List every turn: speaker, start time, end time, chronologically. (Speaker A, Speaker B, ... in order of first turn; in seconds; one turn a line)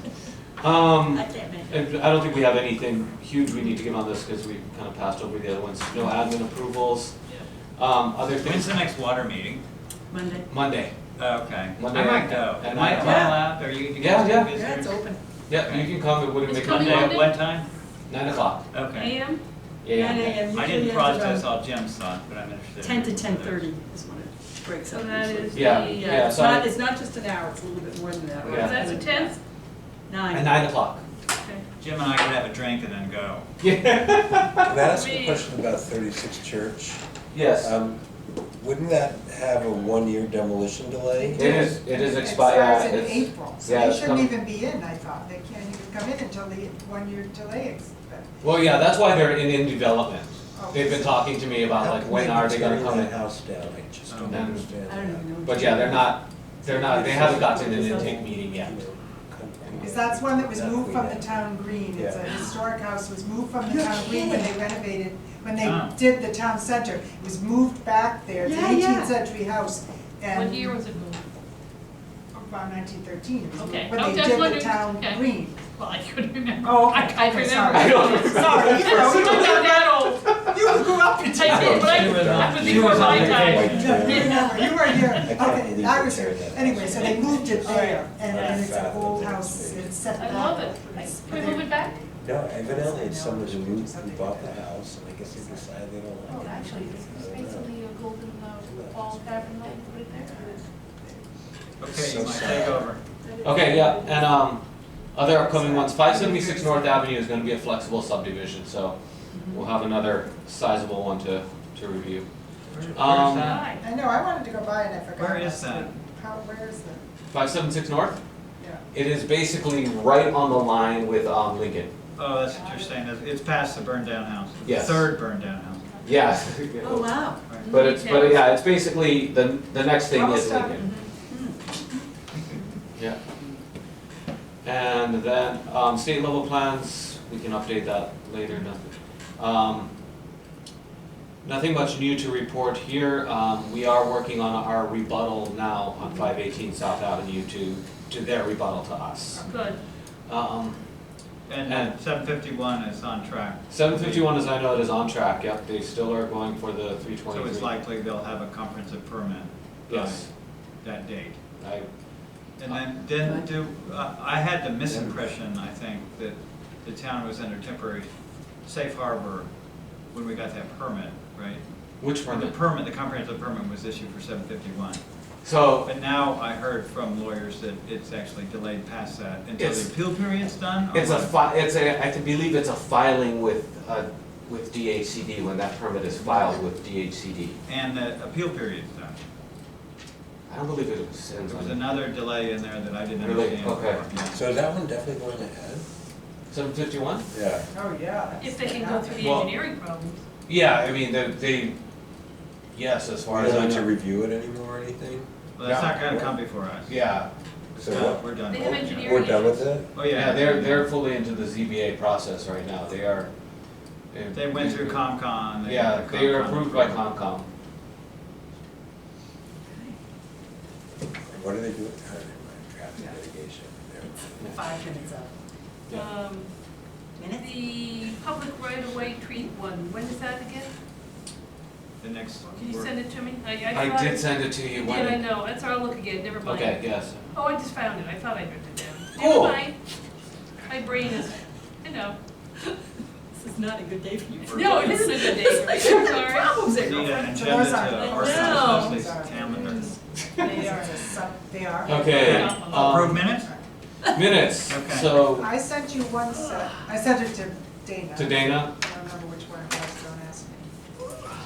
Speaker A: 0.6-7.2
Speaker B: 1.1-1.9
Speaker A: 7.8-8.8
Speaker C: 8.4-9.6
Speaker B: 10.1-10.5
Speaker A: 10.5-10.9
Speaker C: 11.2-17.7
Speaker A: 11.8-14.5
Speaker B: 13.0-13.5
Speaker B: 14.5-15.2
Speaker A: 15.5-17.4
Speaker D: 16.4-17.4
Speaker A: 18.1-18.8
Speaker C: 18.7-19.2
Speaker D: 18.9-19.4
Speaker A: 19.8-20.6
Speaker B: 19.9-21.5
Speaker C: 20.5-23.7
Speaker B: 22.8-29.4
Speaker D: 24.9-26.2
Speaker A: 25.5-26.7
Speaker A: 28.4-28.9
Speaker D: 28.4-29.4
Speaker B: 30.1-30.7
Speaker A: 30.3-31.0
Speaker C: 31.8-33.5
Speaker A: 33.6-34.8
Speaker E: 34.6-37.0
Speaker D: 34.9-35.5
Speaker A: 37.3-37.8
Speaker E: 37.6-38.0
Speaker E: 38.6-41.6
Speaker F: 41.2-48.3
Speaker A: 41.4-44.4
Speaker A: 48.4-53.1
Speaker F: 50.5-51.3
Speaker E: 51.8-55.5
Speaker C: 54.1-54.5
Speaker A: 54.3-54.7
Speaker B: 54.8-58.5
Speaker A: 55.4-58.8
Speaker E: 56.8-62.4
Speaker F: 59.8-70.8
Speaker B: 63.6-64.6
Speaker C: 65.6-66.0
Speaker B: 68.3-69.2
Speaker D: 70.3-71.2
Speaker F: 72.3-75.6
Speaker D: 73.6-80.2
Speaker F: 76.6-94.7
Speaker A: 77.7-79.5
Speaker A: 80.2-80.5
Speaker D: 81.3-85.3
Speaker C: 81.5-84.3
Speaker E: 81.5-90.0
Speaker B: 84.3-84.7
Speaker B: 87.7-88.0
Speaker D: 90.2-91.9
Speaker B: 90.2-90.6
Speaker E: 92.2-97.9
Speaker F: 95.4-95.7
Speaker D: 96.3-100.7
Speaker F: 96.3-97.0
Speaker E: 98.6-100.0
Speaker F: 100.2-101.2
Speaker C: 101.8-103.0
Speaker E: 101.8-102.9
Speaker B: 103.2-103.9
Speaker A: 103.4-112.3
Speaker B: 105.6-107.0
Speaker B: 109.3-109.7
Speaker C: 112.7-113.7
Speaker A: 112.9-113.6
Speaker D: 113.4-113.8
Speaker F: 113.6-117.0
Speaker C: 115.2-116.0
Speaker A: 117.3-118.2
Speaker A: 118.9-121.9
Speaker C: 122.2-126.0
Speaker A: 124.6-125.1
Speaker A: 126.0-130.9
Speaker B: 126.8-127.8
Speaker D: 127.6-128.6
Speaker F: 130.1-130.9
Speaker B: 130.8-131.6
Speaker A: 134.6-139.9
Speaker A: 141.4-149.5
Speaker D: 149.4-149.8
Speaker A: 150.3-150.8
Speaker C: 151.5-154.5
Speaker A: 151.7-151.9
Speaker A: 153.7-157.7
Speaker C: 157.3-161.4
Speaker A: 159.9-160.3
Speaker A: 161.6-161.9
Speaker C: 162.6-168.1
Speaker B: 163.2-163.5
Speaker E: 164.9-165.1
Speaker C: 168.6-169.5
Speaker C: 170.1-171.6
Speaker A: 172.0-172.6
Speaker C: 172.2-175.0
Speaker A: 175.4-175.9
Speaker C: 175.8-181.3
Speaker A: 179.6-179.9
Speaker A: 180.9-187.6
Speaker C: 187.7-189.2
Speaker A: 190.5-192.1
Speaker C: 191.5-194.4
Speaker A: 193.2-194.0
Speaker E: 194.3-195.9
Speaker A: 196.5-197.3
Speaker E: 197.3-197.7
Speaker F: 197.7-199.4
Speaker D: 198.4-200.2
Speaker A: 199.2-199.6
Speaker A: 200.5-201.8
Speaker A: 202.7-203.9
Speaker E: 203.3-206.3
Speaker C: 205.6-207.0
Speaker A: 205.6-206.0
Speaker A: 206.9-207.3
Speaker C: 207.8-209.2
Speaker E: 207.8-209.9
Speaker D: 208.5-209.8
Speaker C: 209.9-210.9
Speaker A: 210.1-213.3
Speaker A: 214.1-217.5
Speaker C: 214.3-217.1
Speaker E: 221.2-225.0
Speaker B: 224.5-225.3
Speaker D: 225.9-226.5
Speaker B: 227.2-227.5
Speaker D: 227.3-230.7
Speaker C: 232.0-232.9
Speaker D: 232.7-236.8
Speaker A: 233.7-235.3
Speaker A: 236.4-237.2
Speaker D: 237.3-239.8
Speaker A: 239.2-239.6
Speaker D: 240.7-242.2
Speaker B: 243.3-247.4
Speaker D: 244.5-246.7
Speaker C: 244.5-245.1
Speaker C: 246.7-250.0
Speaker F: 247.1-253.6
Speaker B: 247.9-249.0
Speaker D: 248.4-248.9
Speaker D: 249.6-251.0
Speaker A: 251.8-253.3
Speaker D: 252.0-253.0
Speaker C: 252.1-253.5
Speaker A: 254.1-255.5
Speaker C: 254.7-255.3
Speaker F: 255.4-260.7
Speaker A: 258.1-258.7